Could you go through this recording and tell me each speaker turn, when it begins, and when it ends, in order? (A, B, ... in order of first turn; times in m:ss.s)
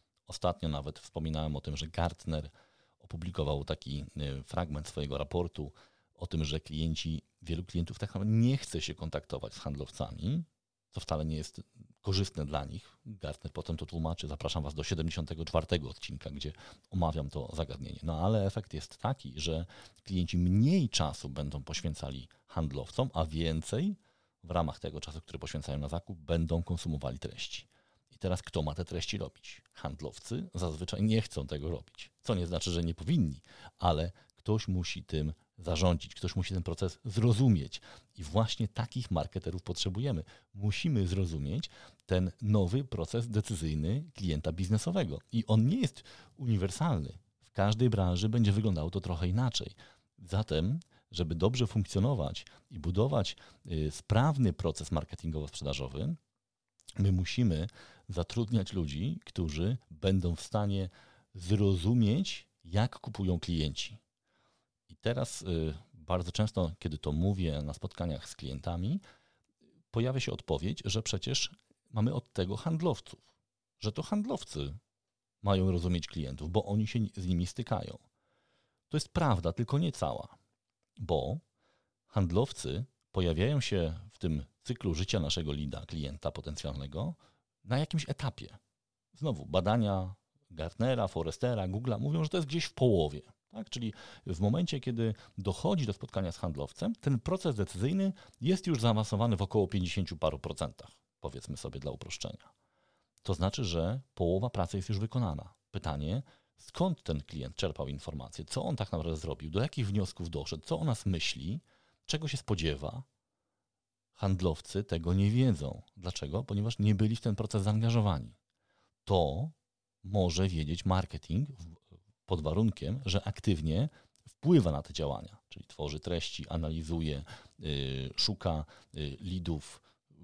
0:00.3-0:56.2 A
0:57.0-1:04.0 A
1:04.9-1:09.0 A
1:09.9-1:13.3 A
1:13.8-1:14.8 A
1:15.4-1:18.0 A
1:18.9-1:20.4 A
1:21.0-1:21.4 A
1:22.1-1:28.6 A
1:29.2-1:42.5 A
1:43.2-1:53.1 A
1:54.2-1:58.4 A
1:59.1-2:09.9 A